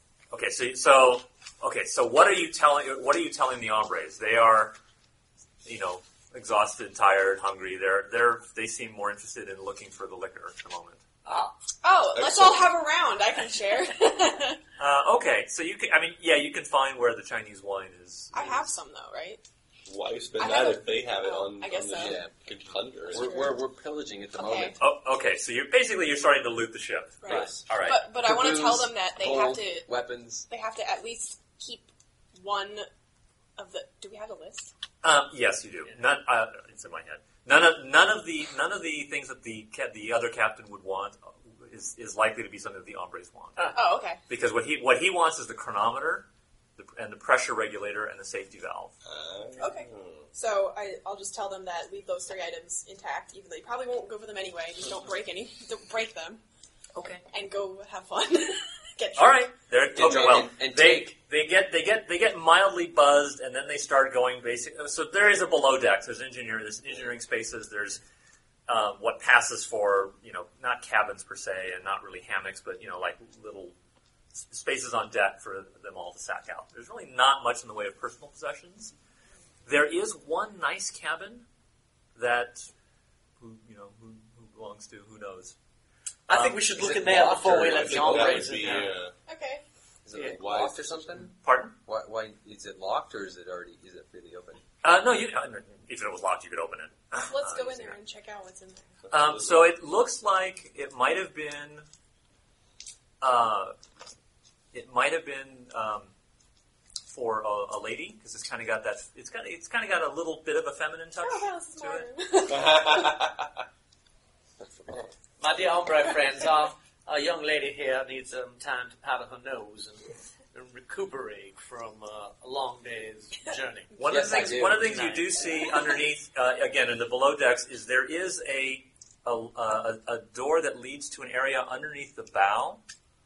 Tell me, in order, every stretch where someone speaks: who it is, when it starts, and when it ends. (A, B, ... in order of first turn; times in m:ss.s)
0:00.3-0:04.8 A
0:05.6-0:11.0 A
0:11.2-0:11.5 B
0:11.8-0:14.6 C
0:12.1-0:12.7 D
0:14.8-0:18.6 A
0:18.3-0:19.4 C
0:19.9-0:23.4 D
0:20.4-0:22.2 C
0:21.9-0:22.3 E
0:23.0-0:24.8 E
0:23.1-0:23.6 C
0:24.3-0:24.8 C
0:24.8-0:28.0 A
0:27.2-0:32.9 C
0:27.2-0:30.5 E
0:33.6-0:34.7 C
0:35.0-0:43.7 A
0:43.7-0:44.2 C
0:44.3-0:48.9 A
0:49.0-0:50.3 D
0:49.6-0:56.4 C
0:56.9-0:57.2 A
0:57.3-0:59.5 C
0:59.2-1:08.0 A
0:59.9-1:01.1 E
1:08.7-1:13.8 A
1:14.3-1:18.9 A
1:19.6-1:21.4 A
1:22.1-1:22.7 A
1:23.4-1:25.5 A
1:26.3-1:29.0 B
1:26.3-1:26.6 A
1:26.7-1:28.9 E
1:27.6-1:29.1 D
1:29.3-1:29.6 C
1:30.0-1:34.6 E
1:30.2-1:31.3 D
1:31.3-1:31.8 A
1:34.8-1:38.0 A
1:37.1-1:39.0 C
1:39.1-1:39.6 D
1:39.1-1:41.8 A
1:43.2-1:43.8 A
1:44.7-1:46.1 A
1:47.1-1:52.1 A
1:51.2-1:53.2 C
1:52.5-1:53.3 D
1:54.6-1:55.1 E
1:55.4-2:05.7 B
2:04.0-2:12.8 A
2:04.0-2:05.0 E